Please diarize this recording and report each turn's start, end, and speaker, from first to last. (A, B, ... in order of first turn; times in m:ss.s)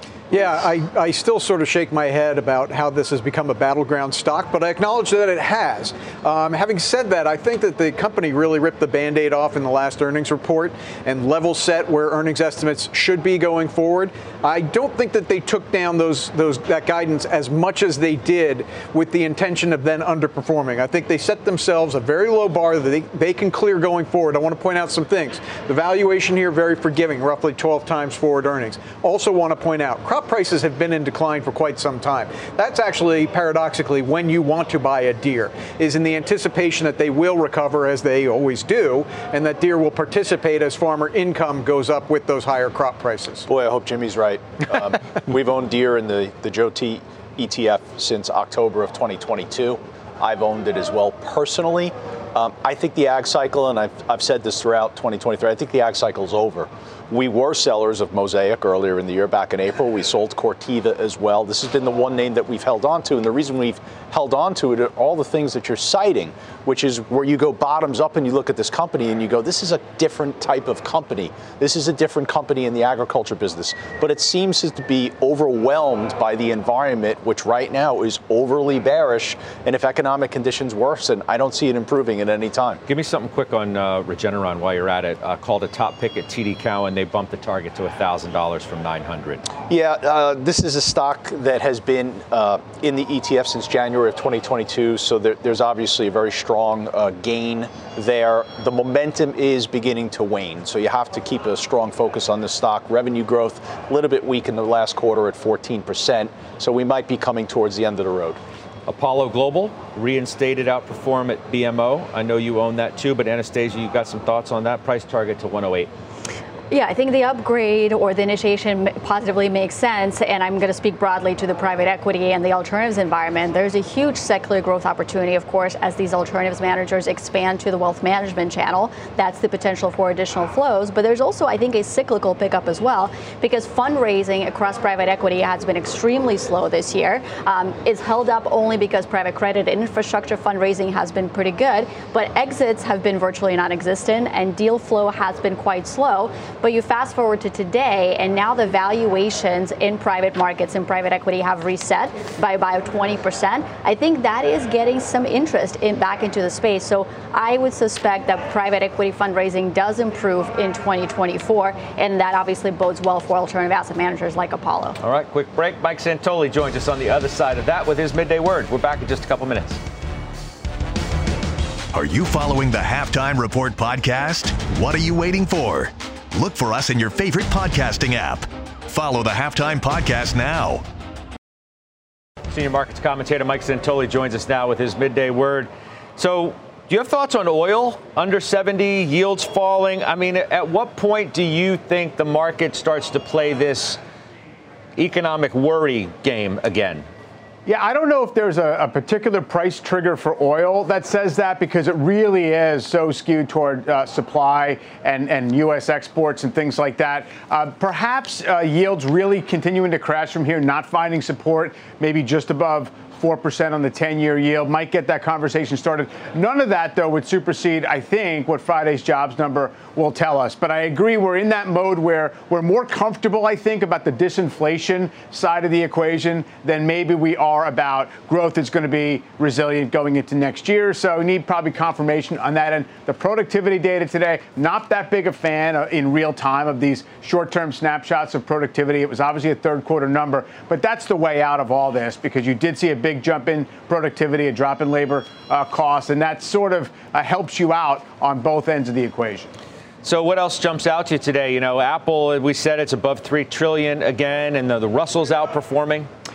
0:00.3-0:43.5 A
0:43.5-1:22.8 B
1:22.9-1:29.5 C
1:29.7-1:48.4 B
1:48.9-1:55.9 C
1:56.7-2:45.0 D
2:45.0-2:49.8 C
2:51.9-3:00.8 E
3:02.5-3:14.0 C
3:15.0-3:17.0 C
3:17.6-4:09.5 F
4:10.0-4:16.1 C